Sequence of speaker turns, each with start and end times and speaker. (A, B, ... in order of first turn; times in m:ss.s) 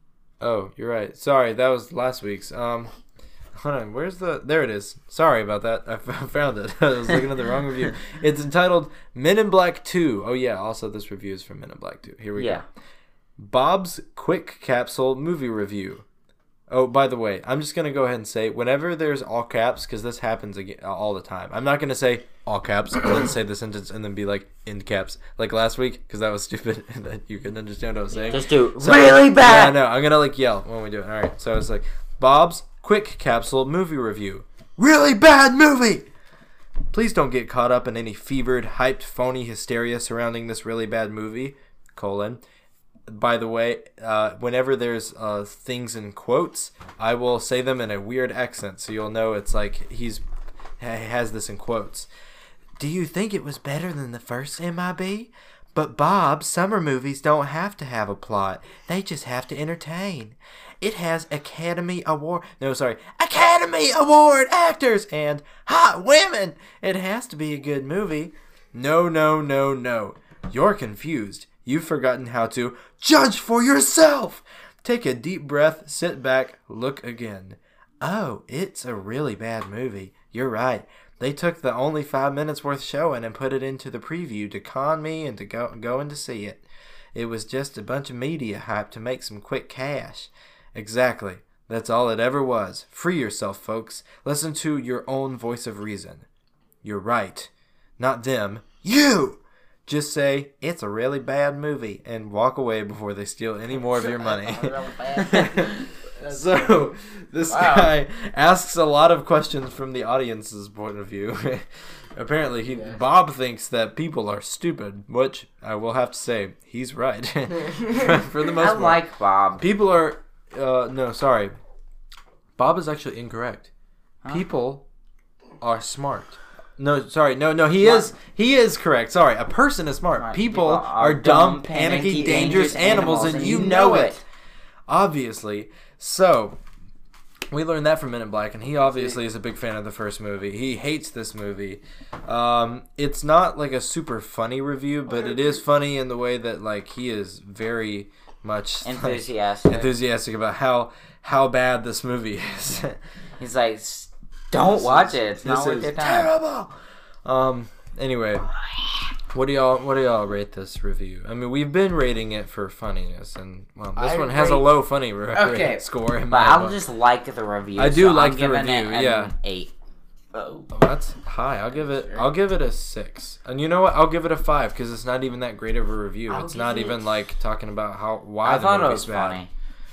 0:00.4-0:02.9 A
0:03.6-0:12.6 A
0:12.4-0:12.6 B
0:13.4-0:16.0 A
0:16.7-0:36.1 A
0:28.2-0:29.8 B
0:36.9-0:42.4 A
0:43.1-0:50.2 A
0:50.8-0:52.1 A
0:52.8-1:36.2 A
1:36.8-1:59.0 A
1:43.8-1:46.8 C
1:47.5-1:47.9 C
1:52.6-1:53.0 C
1:57.6-1:58.2 C
1:58.5-1:59.6 B
1:59.6-2:01.5 A
2:02.6-2:03.7 A
2:04.3-2:04.8 A
2:05.6-2:14.2 A
2:07.8-2:08.1 B
2:10.2-2:14.2 B
2:12.2-2:13.8 C
2:14.9-2:16.6 A
2:17.5-2:33.0 A
2:18.9-2:19.2 C
2:28.8-2:29.9 B
2:33.4-2:36.3 B
2:34.6-2:36.7 A
2:37.2-2:38.5 A
2:39.3-2:46.8 A
2:44.0-2:44.8 C
2:45.3-2:45.8 C
2:46.3-2:49.7 B
2:47.8-2:49.3 A
2:50.3-2:50.7 C
2:50.7-2:59.4 A
2:51.7-2:52.3 C
2:56.3-2:57.1 C
2:58.4-2:59.5 B